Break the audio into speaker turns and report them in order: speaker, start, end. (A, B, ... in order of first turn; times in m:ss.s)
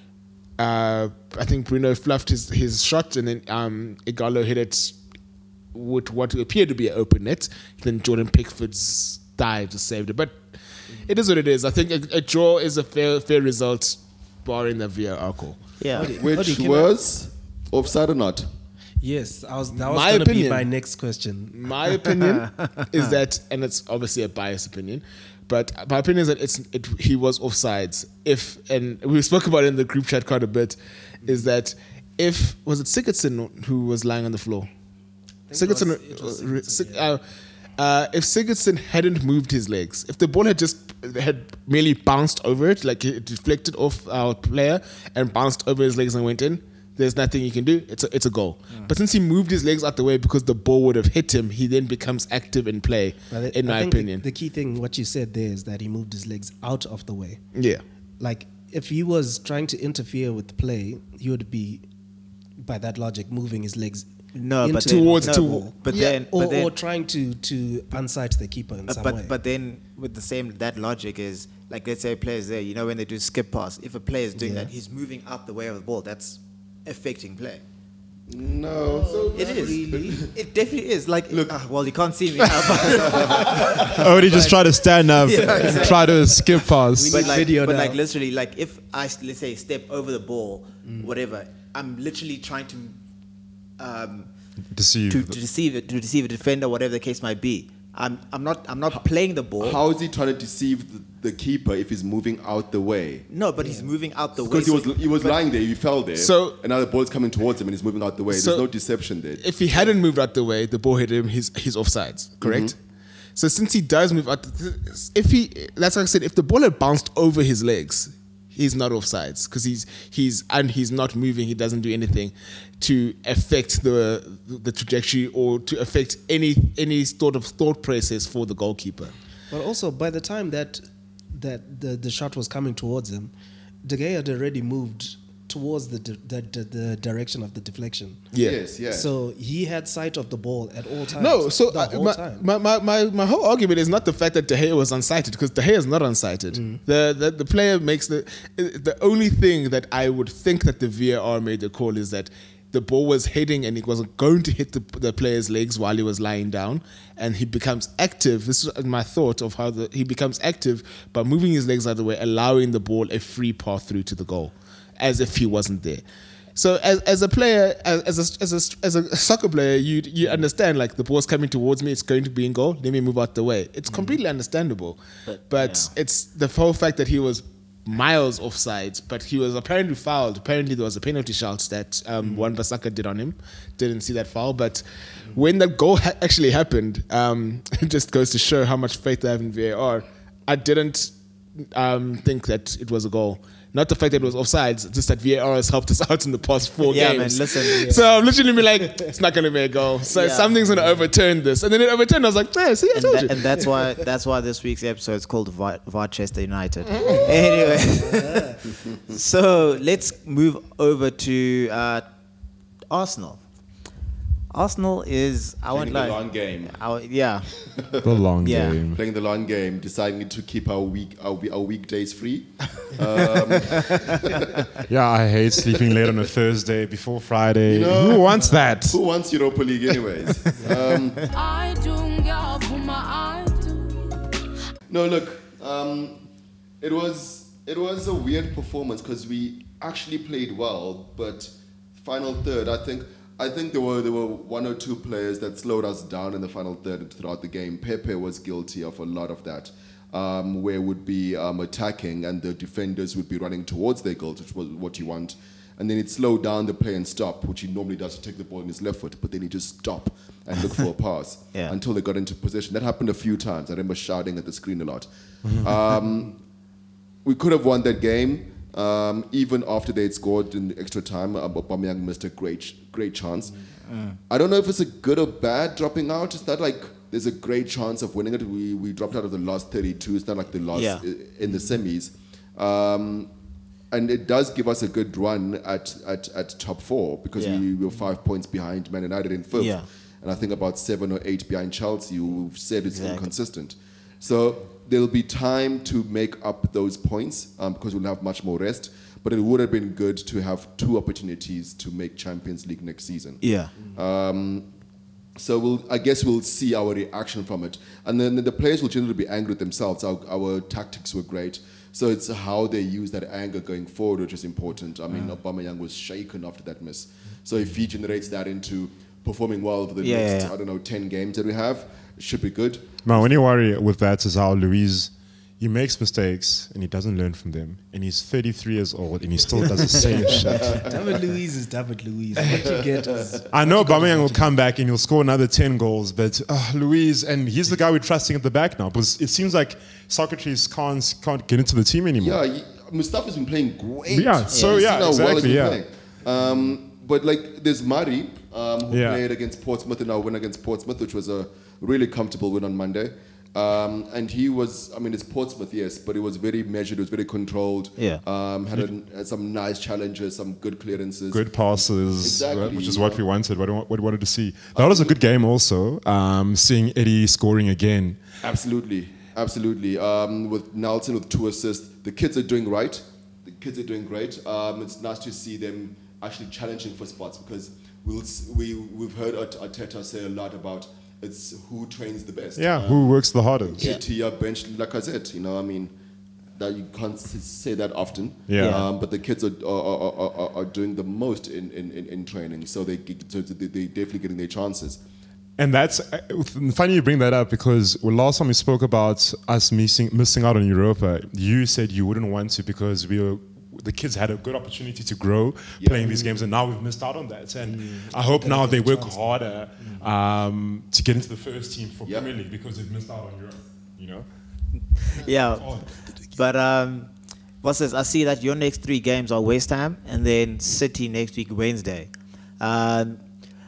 0:00.6-0:05.0 A
0:05.7-0:10.5 A
0:11.0-0:15.6 A
0:15.8-0:16.1 B
0:15.9-0:16.9 C
0:16.1-0:18.5 D
0:19.0-0:21.6 C
0:19.8-0:20.7 A
0:21.5-0:34.7 A
0:22.4-0:23.1 B
0:35.5-0:37.0 C
0:35.5-0:37.2 A
0:37.8-0:54.2 A
0:53.3-0:57.4 C
0:57.5-0:57.8 A
0:58.2-1:01.8 C
1:02.6-1:04.1 C
1:04.3-1:06.7 B
1:04.6-1:09.3 C
1:04.8-1:06.1 A
1:08.9-1:17.6 B
1:14.4-1:14.7 C
1:18.3-1:20.3 D
1:18.8-1:20.2 C
1:19.3-1:24.5 B
1:21.3-1:21.5 D
1:22.8-1:23.6 D
1:23.3-1:24.5 C
1:23.8-1:27.4 E
1:25.2-1:26.4 B
1:25.2-1:28.0 C
1:27.1-1:33.0 B
1:30.8-1:31.1 C
1:33.8-1:34.3 B
1:34.7-1:35.4 E
1:35.1-1:39.8 B
1:39.6-1:43.2 D
1:43.3-1:45.4 B
1:43.6-1:43.9 C
1:44.4-1:49.4 D
1:46.2-1:46.6 A
1:48.3-1:48.7 A
1:49.4-1:52.8 A
1:52.4-1:52.7 D
1:53.4-2:09.1 A
2:09.5-2:10.8 C
2:11.3-2:13.3 C
2:13.8-2:18.2 C
2:18.3-2:18.6 A
2:18.4-2:19.1 D
2:18.9-2:22.4 C
2:21.2-2:46.0 A
2:26.5-2:26.8 C
2:46.5-3:23.6 A
2:55.3-2:55.9 B
3:16.9-3:17.9 B
3:17.7-3:18.2 C
3:18.8-3:19.1 C
3:20.1-3:20.6 B
3:20.7-3:21.0 C
3:22.9-3:32.0 B
3:27.1-3:28.6 C
3:32.9-3:33.4 B
3:34.5-3:37.7 B
3:35.7-3:36.8 D
3:37.8-3:38.2 D
3:38.0-3:39.0 E
3:38.4-3:38.8 B
3:38.9-3:44.7 D
3:44.8-3:49.0 E
3:45.7-3:46.1 D
3:47.6-3:51.2 D
3:51.3-3:54.2 F
3:54.9-3:56.2 D
3:56.8-4:26.4 D
4:27.2-4:33.5 D
4:33.9-4:34.2 B
4:34.3-4:43.3 D
4:40.7-4:41.0 B
4:43.9-5:04.7 D
4:47.4-4:47.6 B
4:49.5-4:49.8 B
4:52.9-4:53.2 B
5:03.4-5:03.7 B
5:05.4-5:23.3 D
5:20.0-5:20.5 B
5:23.0-5:30.9 E
5:30.3-5:30.9 D
5:30.7-5:34.5 C
5:32.4-5:33.4 D
5:33.5-5:42.4 E
5:42.2-6:03.2 D
5:44.1-5:45.8 E
5:44.5-5:44.9 B
5:48.9-5:49.2 E
6:01.3-6:08.2 E
6:04.7-6:05.2 D
6:08.4-6:25.9 D
6:22.6-6:23.9 E
6:26.6-6:35.0 D
6:28.5-6:28.8 E
6:28.6-6:28.8 B
6:35.6-6:54.2 E
6:45.8-6:46.3 D
6:47.8-6:50.0 C
6:55.1-6:55.8 B
6:56.3-6:57.1 B
6:57.6-7:03.2 B